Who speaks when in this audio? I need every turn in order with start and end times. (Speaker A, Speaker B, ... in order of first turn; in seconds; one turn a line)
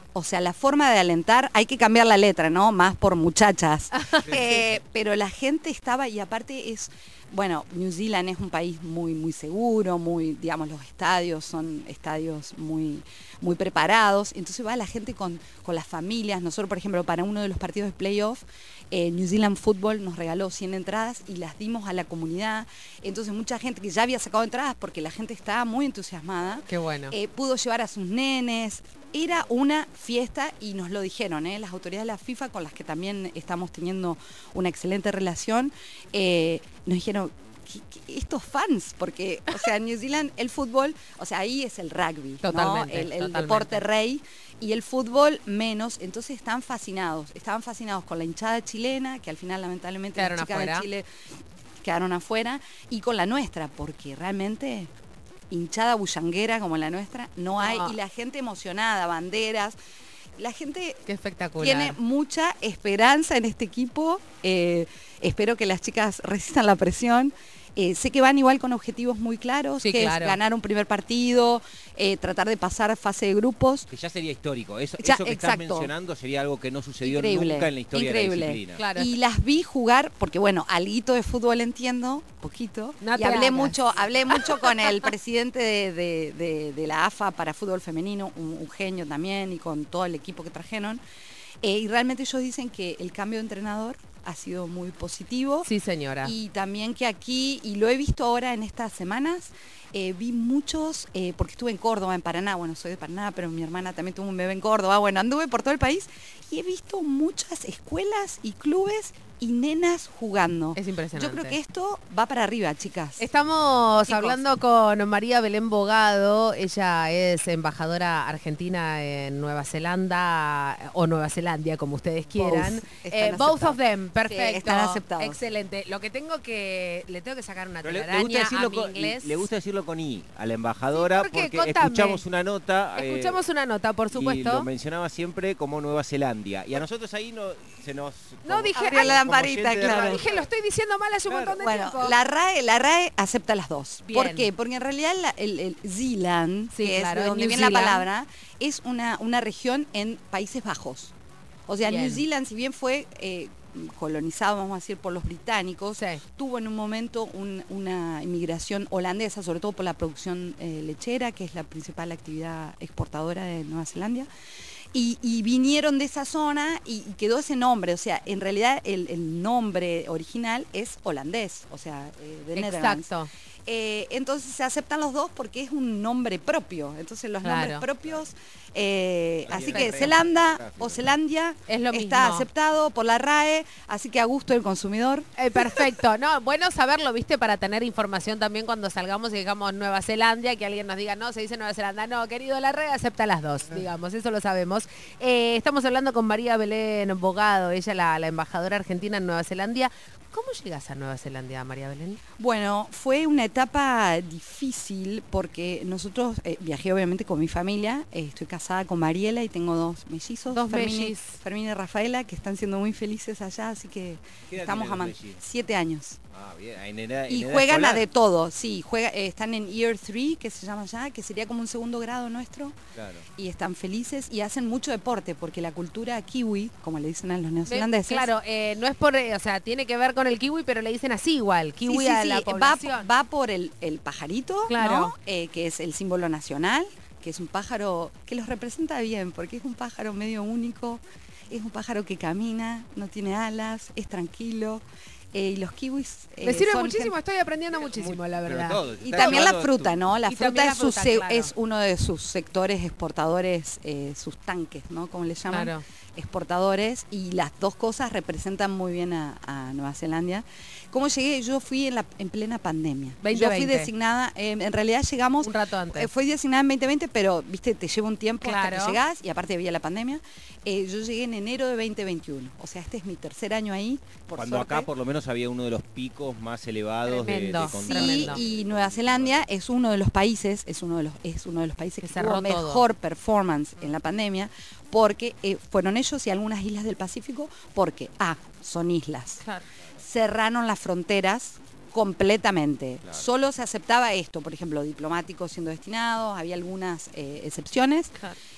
Speaker A: 0.1-51.1
Speaker B: 4.0-4.2
Speaker C: 4.3-4.6
Speaker B: 26.7-27.1
Speaker B: 42.4-43.8
Speaker B: 50.2-50.9
Speaker A: 51.8-54.9
Speaker A: 55.5-59.8
Speaker B: 57.6-58.0
Speaker A: 60.4-61.0
Speaker B: 61.1-62.0
Speaker A: 61.6-73.9
Speaker B: 69.8-70.4
Speaker C: 73.9-78.8
Speaker A: 75.0-75.9
Speaker A: 77.0-91.0
Speaker B: 78.8-79.1
Speaker B: 83.0-83.8
Speaker B: 84.3-85.0
Speaker A: 91.6-95.7
Speaker B: 95.7-96.3
Speaker A: 96.2-113.2
Speaker B: 110.8-111.6
Speaker B: 113.2-129.4
Speaker A: 114.1-114.4
Speaker A: 122.3-125.4
Speaker C: 127.8-133.4
Speaker B: 130.9-132.2
Speaker B: 132.9-134.7
Speaker C: 134.1-140.4
Speaker B: 138.4-139.2
Speaker A: 138.8-140.2
Speaker B: 139.8-142.2
Speaker C: 141.3-141.6
Speaker A: 141.6-151.1
Speaker B: 144.1-144.5
Speaker B: 146.7-148.0
Speaker A: 151.7-164.3
Speaker B: 151.8-152.2
Speaker B: 156.0-156.2
Speaker A: 164.9-173.1
Speaker B: 172.6-173.3
Speaker A: 173.7-185.8
Speaker B: 177.4-177.8
Speaker C: 179.5-181.2
Speaker B: 179.6-180.1
Speaker B: 181.7-182.5
Speaker B: 185.4-202.2
Speaker A: 202.4-216.2
Speaker B: 210.5-211.4
Speaker C: 214.5-215.4
Speaker C: 216.3-218.0
Speaker A: 217.3-222.8
Speaker C: 222.9-223.3
Speaker A: 223.4-228.3
Speaker B: 227.7-233.1
Speaker A: 231.9-244.8
Speaker B: 234.7-235.2
Speaker A: 245.3-247.1
Speaker B: 246.4-249.5
Speaker C: 247.7-250.0
Speaker A: 248.9-274.9
Speaker B: 250.3-251.5
Speaker B: 255.5-255.8
Speaker B: 263.2-263.9
Speaker B: 265.4-266.1
Speaker B: 268.4-269.0
Speaker C: 274.4-279.4
Speaker B: 277.1-278.4
Speaker A: 277.6-289.4
Speaker B: 282.0-282.8
Speaker A: 290.0-298.1